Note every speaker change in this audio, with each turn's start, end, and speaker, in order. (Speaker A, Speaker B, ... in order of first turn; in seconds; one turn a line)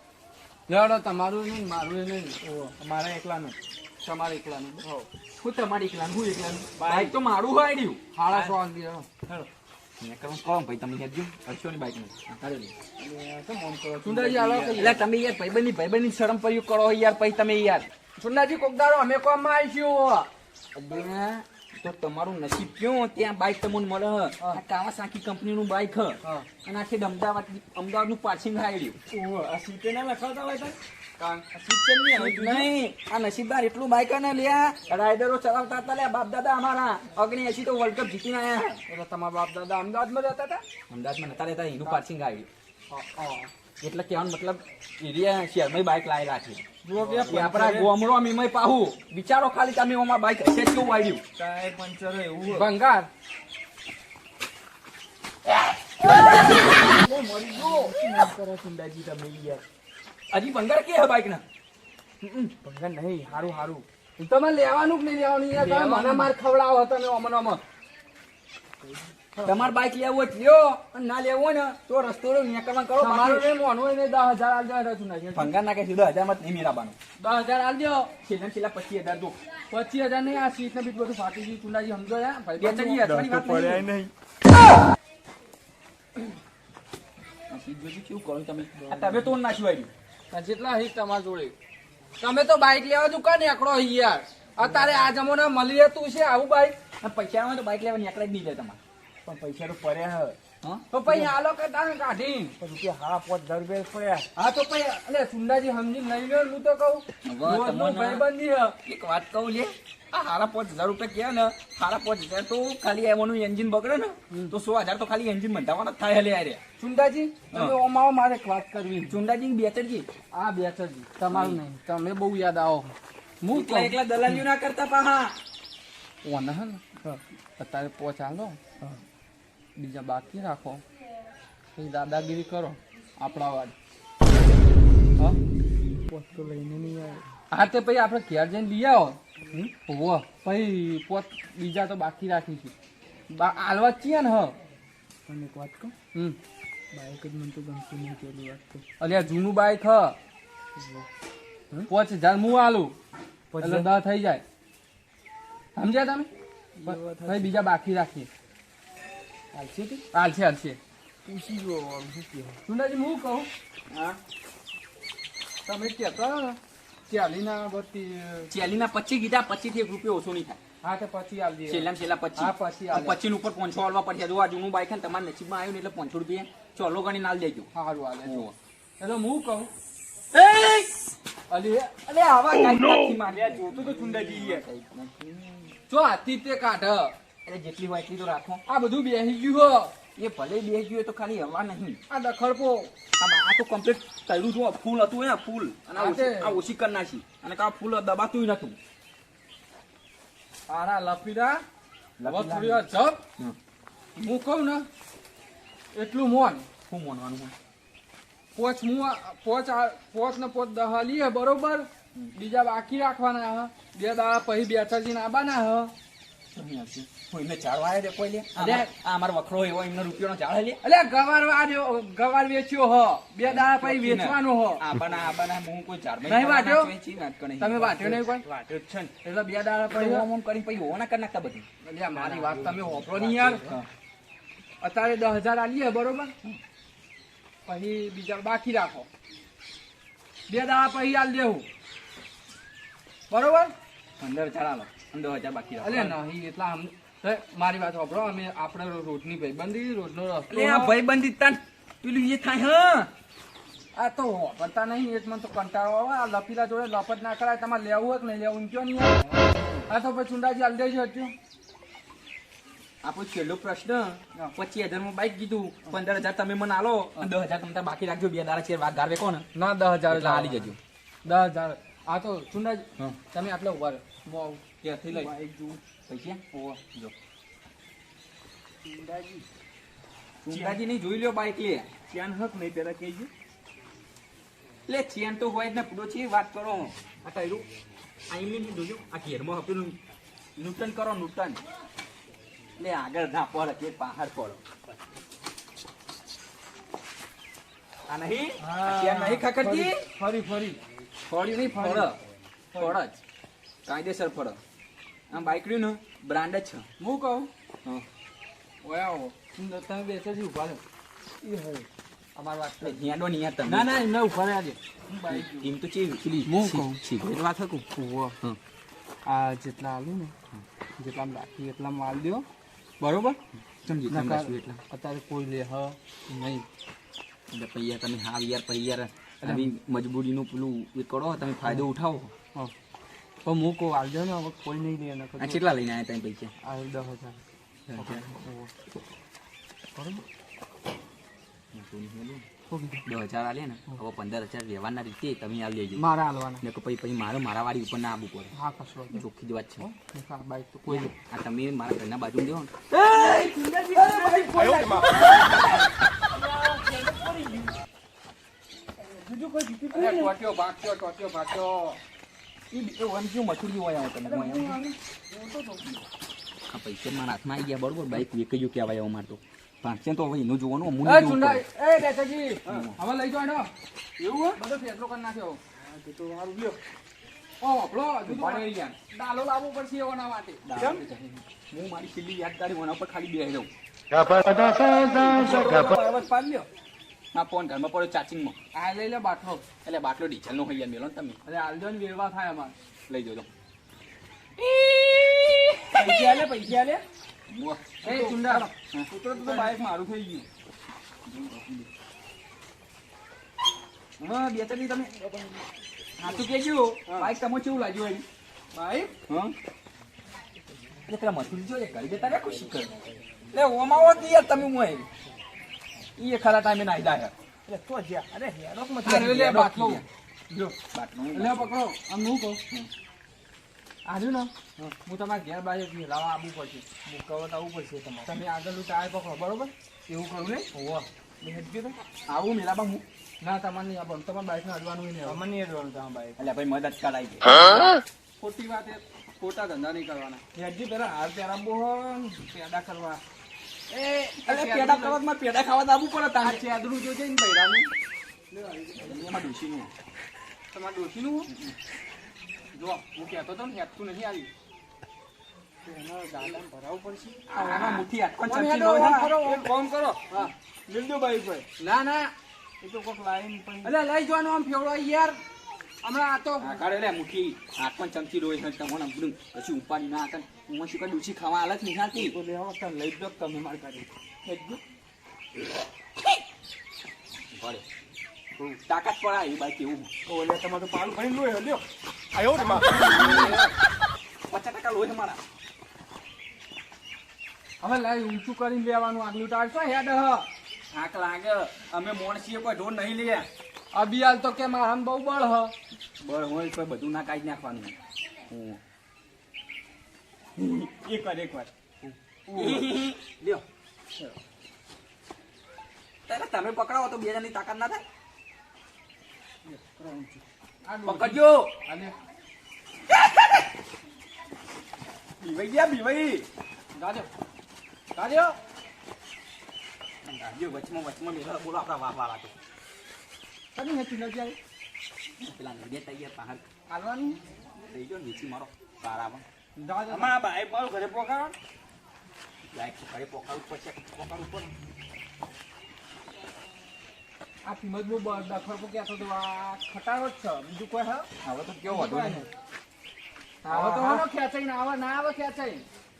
Speaker A: 0.7-2.4
Speaker B: 2.4-3.6
Speaker A: 4.0-4.8
Speaker B: 4.8-5.1
Speaker C: 5.4-8.0
Speaker B: 6.8-7.1
Speaker A: 8.2-9.1
Speaker B: 8.3-8.6
Speaker C: 10.0-12.8
Speaker B: 13.0-15.0
Speaker A: 14.0-15.0
Speaker C: 14.8-17.9
Speaker A: 18.2-20.3
Speaker C: 20.7-29.0
Speaker B: 29.1-30.8
Speaker A: 31.2-31.4
Speaker B: 31.5-32.7
Speaker C: 32.1-38.8
Speaker A: 38.9-40.6
Speaker C: 40.9-42.5
Speaker A: 42.9-43.5
Speaker C: 43.8-46.6
Speaker B: 46.9-47.9
Speaker A: 46.9-47.8
Speaker C: 47.3-51.2
Speaker B: 51.4-52.7
Speaker A: 52.5-53.1
Speaker C: 56.1-56.8
Speaker B: 56.8-59.6
Speaker C: 60.3-61.4
Speaker C: 62.2-62.5
Speaker B: 62.6-63.9
Speaker A: 64.2-67.6
Speaker B: 65.5-66.3
Speaker B: 68.8-69.7
Speaker C: 69.4-73.5
Speaker A: 73.0-75.5
Speaker C: 75.3-77.0
Speaker A: 77.2-78.1
Speaker C: 78.2-79.4
Speaker A: 79.7-83.1
Speaker C: 82.6-83.9
Speaker B: 83.0-84.1
Speaker C: 87.5-89.9
Speaker B: 88.8-89.4
Speaker A: 90.3-91.5
Speaker A: 92.2-96.8
Speaker B: 94.6-95.1
Speaker C: 97.0-98.8
Speaker B: 99.2-100.4
Speaker A: 100.9-102.6
Speaker B: 101.1-101.3
Speaker B: 102.6-104.3
Speaker A: 104.4-108.8
Speaker C: 107.2-108.3
Speaker C: 108.8-116.6
Speaker A: 116.8-119.2
Speaker C: 117.5-117.8
Speaker C: 119.1-120.1
Speaker A: 120.3-124.0
Speaker C: 121.3-121.6
Speaker C: 123.5-125.4
Speaker A: 126.2-126.8
Speaker A: 127.6-128.6
Speaker A: 129.8-130.8
Speaker A: 131.8-133.7
Speaker B: 136.1-137.3
Speaker A: 137.5-142.7
Speaker A: 143.3-144.6
Speaker B: 145.3-145.9
Speaker B: 146.9-148.8
Speaker A: 149.0-150.2
Speaker B: 150.8-151.1
Speaker A: 151.8-153.0
Speaker B: 153.5-153.9
Speaker A: 153.6-154.4
Speaker A: 155.8-156.3
Speaker B: 156.8-157.6
Speaker A: 156.8-158.3
Speaker B: 159.5-160.0
Speaker A: 160.1-160.8
Speaker B: 161.2-162.6
Speaker A: 162.7-163.5
Speaker C: 163.9-164.2
Speaker A: 165.7-168.5
Speaker C: 168.5-170.6
Speaker A: 170.8-173.2
Speaker C: 171.7-177.7
Speaker A: 177.7-178.5
Speaker C: 178.2-178.5
Speaker A: 179.0-179.7
Speaker C: 180.3-181.1
Speaker A: 181.5-181.9
Speaker C: 182.1-185.7
Speaker B: 183.1-184.7
Speaker A: 185.9-187.2
Speaker C: 187.4-188.6
Speaker A: 188.7-189.9
Speaker C: 190.2-192.0
Speaker A: 192.1-192.9
Speaker C: 193.2-198.8
Speaker A: 195.9-196.6
Speaker A: 200.7-201.6
Speaker C: 202.2-202.9
Speaker A: 202.2-203.2
Speaker A: 204.2-204.9
Speaker A: 205.9-206.7
Speaker C: 206.9-207.5
Speaker A: 208.6-215.9
Speaker C: 216.6-220.8
Speaker A: 218.6-218.9
Speaker A: 220.8-224.8
Speaker C: 223.4-228.2
Speaker A: 226.2-226.9
Speaker A: 227.6-228.4
Speaker B: 228.2-229.1
Speaker A: 229.2-230.3
Speaker C: 229.9-231.7
Speaker A: 231.8-233.7
Speaker B: 232.2-233.7
Speaker C: 233.4-233.9
Speaker A: 234.8-236.3
Speaker A: 237.7-239.1
Speaker A: 240.5-241.7
Speaker A: 243.3-243.7
Speaker C: 244.2-246.2
Speaker A: 245.8-251.0
Speaker C: 250.5-253.1
Speaker A: 253.9-259.2
Speaker B: 259.2-259.8
Speaker A: 259.9-261.3
Speaker C: 263.0-269.5
Speaker A: 269.5-274.6
Speaker C: 270.1-270.8
Speaker C: 274.8-275.3
Speaker B: 275.1-275.8
Speaker C: 276.1-277.1
Speaker B: 278.8-279.5
Speaker C: 280.4-281.9
Speaker B: 280.5-280.8
Speaker B: 282.1-283.3
Speaker C: 284.9-287.7
Speaker C: 288.3-290.0
Speaker C: 290.6-291.6
Speaker C: 292.8-294.6
Speaker C: 298.1-300.1
Speaker B: 298.6-300.8
Speaker A: 299.6-300.7
Speaker C: 301.3-302.2
Speaker C: 302.8-303.2
Speaker C: 303.9-304.6
Speaker C: 305.3-306.9
Speaker A: 307.0-307.5
Speaker A: 308.8-310.8
Speaker B: 311.4-311.9
Speaker A: 312.4-313.0
Speaker C: 312.8-314.1
Speaker A: 313.6-315.7
Speaker C: 315.3-317.9
Speaker A: 316.4-317.0
Speaker A: 317.9-318.4
Speaker A: 319.3-320.3
Speaker A: 321.0-322.5
Speaker A: 323.0-323.4
Speaker C: 323.7-324.8
Speaker A: 324.1-326.7
Speaker C: 327.5-332.3
Speaker A: 329.4-329.7
Speaker A: 333.4-335.6
Speaker C: 335.4-336.5
Speaker A: 336.6-337.4
Speaker C: 337.9-338.3
Speaker A: 338.0-338.7
Speaker A: 340.0-340.2
Speaker C: 341.7-342.5
Speaker A: 342.7-343.1
Speaker C: 343.1-346.0
Speaker A: 346.0-346.6
Speaker C: 346.6-348.5
Speaker A: 348.5-349.2
Speaker C: 349.1-349.9
Speaker A: 349.8-351.1
Speaker C: 350.9-355.9
Speaker B: 353.1-355.4
Speaker A: 354.6-355.4
Speaker B: 356.3-357.8
Speaker B: 359.0-360.3
Speaker A: 359.9-362.0
Speaker C: 362.7-364.8
Speaker B: 364.3-364.6
Speaker A: 364.4-365.8
Speaker C: 366.7-371.6
Speaker A: 371.0-373.7
Speaker C: 372.7-373.0
Speaker B: 374.2-374.5
Speaker A: 374.4-375.6
Speaker B: 375.8-376.8
Speaker A: 377.6-380.8
Speaker C: 378.2-378.9
Speaker C: 380.6-383.7
Speaker B: 380.8-381.1
Speaker B: 384.9-386.7
Speaker A: 385.1-385.7
Speaker C: 385.1-385.8
Speaker C: 387.3-388.6
Speaker A: 388.7-389.7
Speaker C: 389.8-391.4
Speaker A: 391.5-392.8
Speaker C: 393.1-393.5
Speaker C: 394.6-396.5
Speaker A: 394.9-395.7
Speaker B: 395.9-397.0
Speaker C: 397.5-398.0
Speaker A: 398.0-398.7
Speaker B: 398.1-400.5
Speaker C: 398.5-399.1
Speaker A: 399.4-399.7
Speaker C: 401.3-401.7
Speaker C: 404.2-405.1
Speaker C: 406.2-408.2
Speaker B: 407.1-407.3
Speaker A: 408.7-409.1
Speaker C: 409.3-409.5
Speaker C: 411.1-412.9
Speaker C: 413.5-415.1
Speaker C: 416.2-417.3
Speaker B: 417.7-419.4
Speaker C: 419.1-420.1
Speaker A: 419.1-420.8
Speaker C: 420.9-421.7
Speaker A: 421.3-422.6
Speaker A: 424.1-426.9
Speaker B: 427.1-428.4
Speaker A: 428.3-431.1
Speaker B: 431.4-432.0
Speaker C: 432.3-433.0
Speaker A: 433.4-435.4
Speaker B: 435.2-436.4
Speaker C: 436.4-437.9
Speaker A: 437.7-440.4
Speaker B: 440.6-443.2
Speaker A: 443.9-445.2
Speaker C: 444.4-446.6
Speaker A: 446.4-447.9
Speaker A: 448.6-449.0
Speaker C: 449.0-449.9
Speaker A: 450.7-451.5
Speaker C: 451.5-451.8
Speaker A: 452.7-454.5
Speaker B: 455.9-456.9
Speaker A: 456.3-459.7
Speaker C: 457.5-459.4
Speaker B: 459.4-460.3
Speaker B: 460.9-461.7
Speaker A: 461.8-462.3
Speaker B: 462.8-463.9
Speaker A: 463.8-465.4
Speaker A: 466.0-466.8
Speaker C: 466.6-472.4
Speaker B: 472.1-474.1
Speaker A: 474.5-474.8
Speaker C: 477.5-477.9
Speaker C: 478.6-480.1
Speaker B: 480.3-481.9
Speaker C: 482.6-483.6
Speaker A: 482.6-483.7
Speaker B: 482.8-483.5
Speaker C: 484.5-485.4
Speaker A: 487.8-490.5
Speaker C: 490.9-493.5
Speaker A: 493.9-495.7
Speaker C: 496.2-498.0
Speaker C: 498.5-498.8
Speaker C: 500.6-501.1
Speaker B: 500.9-501.7
Speaker C: 502.0-503.6
Speaker A: 502.5-502.8
Speaker C: 506.3-508.0
Speaker A: 509.7-512.1
Speaker C: 511.1-511.7
Speaker C: 513.1-513.8
Speaker C: 515.4-516.5
Speaker A: 517.0-517.3
Speaker A: 518.1-518.6
Speaker C: 520.2-522.5
Speaker A: 523.8-524.6
Speaker C: 525.4-526.7
Speaker A: 526.9-527.4
Speaker C: 527.8-529.5
Speaker A: 529.8-530.4
Speaker B: 530.1-531.5
Speaker C: 532.7-534.7
Speaker A: 537.6-541.3
Speaker C: 541.4-542.5
Speaker A: 541.9-542.5
Speaker C: 543.6-544.3
Speaker A: 543.7-545.9